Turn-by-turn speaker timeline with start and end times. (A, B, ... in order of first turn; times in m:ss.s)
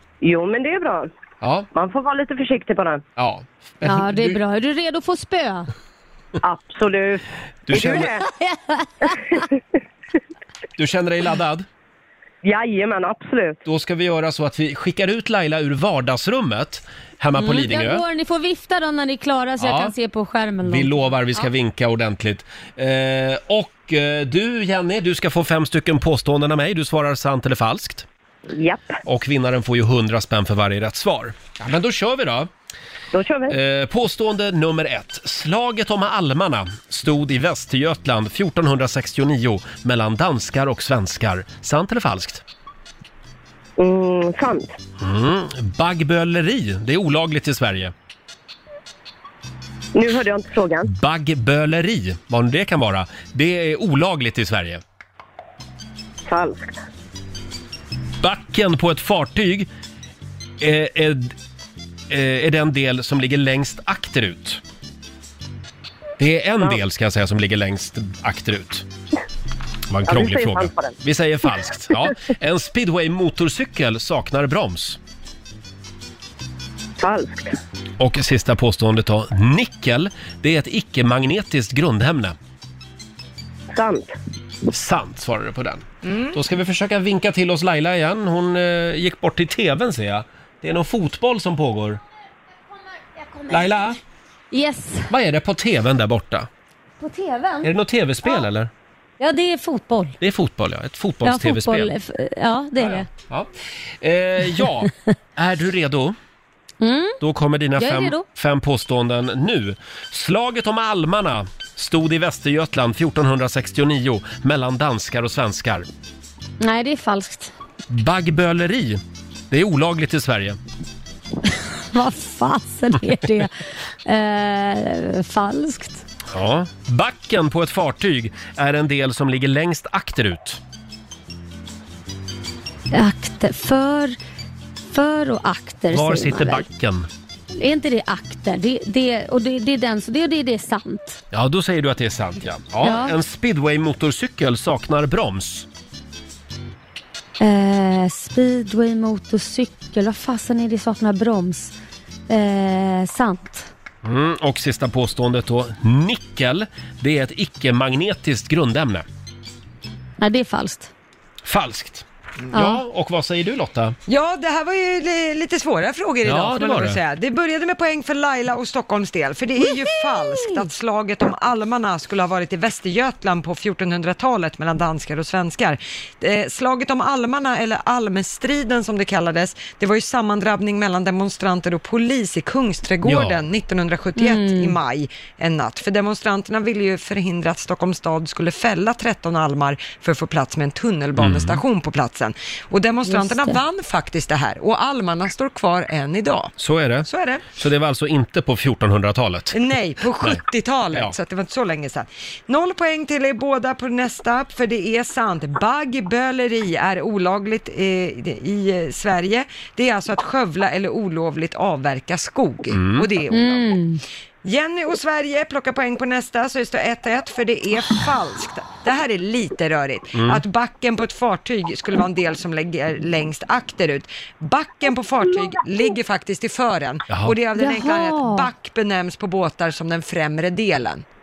0:00.2-0:01.1 A
0:01.4-0:01.7 B
0:01.7-0:03.0 A
0:03.2-0:04.4 B
0:03.8-0:05.7 C
0:06.4-0:08.2 A
0:07.7-0:08.2 B
0:08.2-0:09.2 C
0:10.8-0:11.7 B
0:12.4-0:13.6 A
0:13.7-0:18.0 B
0:17.4-0:21.5 C
0:19.6-0:19.9 B
0:20.6-0:28.1 B
0:28.5-0:29.0 A
0:29.0-0:32.5 B
0:33.1-0:33.6 A
0:33.5-0:42.4 B
0:43.8-0:44.7 A
0:45.0-0:47.9 B
0:49.9-0:50.9 A
0:50.8-0:54.8 B
0:56.3-0:56.8 A
0:58.2-0:59.7 B
1:00.6-1:01.3 B
1:02.1-1:04.6 B
1:06.2-1:08.9 B
1:09.9-1:15.0 B
1:10.1-1:11.0 A
1:17.0-1:17.5 A
1:18.0-1:22.4 B
1:23.7-1:24.1 A
1:24.7-1:32.0 B
1:33.2-1:33.8 C
1:33.5-1:34.0 B
1:34.5-1:35.1 C
1:35.1-1:36.5 B
1:37.0-1:37.7 C
1:37.6-1:38.7 B
1:39.2-1:40.2 C
1:40.2-1:41.9 B
1:41.2-1:43.1 C
1:42.8-1:43.5 B
1:44.0-1:46.2 B
1:46.8-1:47.2 C
1:47.2-1:55.9 B
1:47.8-1:48.2 C
1:56.6-1:57.5 C
1:57.9-2:00.6 B
2:01.5-2:03.5 C
2:04.0-2:06.0 C
2:06.3-2:10.6 B
2:12.9-2:14.2 C
2:14.9-2:16.7 C
2:15.9-2:17.1 B
2:17.6-2:21.2 C
2:21.3-2:25.7 B
2:22.8-2:23.2 C
2:27.4-2:31.7 C
2:32.3-2:33.7 C
2:34.0-2:39.1 B
2:40.2-2:40.9 C
2:41.4-2:44.0 B
2:42.5-2:42.8 C
2:44.1-3:16.5 D
2:46.2-2:47.0 B
2:50.1-2:50.6 C
3:03.0-3:03.4 B
3:04.2-3:04.8 C
3:11.2-3:11.6 B
3:13.1-3:13.6 C
3:16.6-3:19.6 B
3:17.1-3:17.5 D
3:19.5-3:33.8 D
3:32.7-3:33.1 B
3:33.3-3:34.0 C
3:34.4-3:51.0 D
3:40.1-3:40.4 B
3:47.1-3:47.4 B
3:47.6-3:48.5 C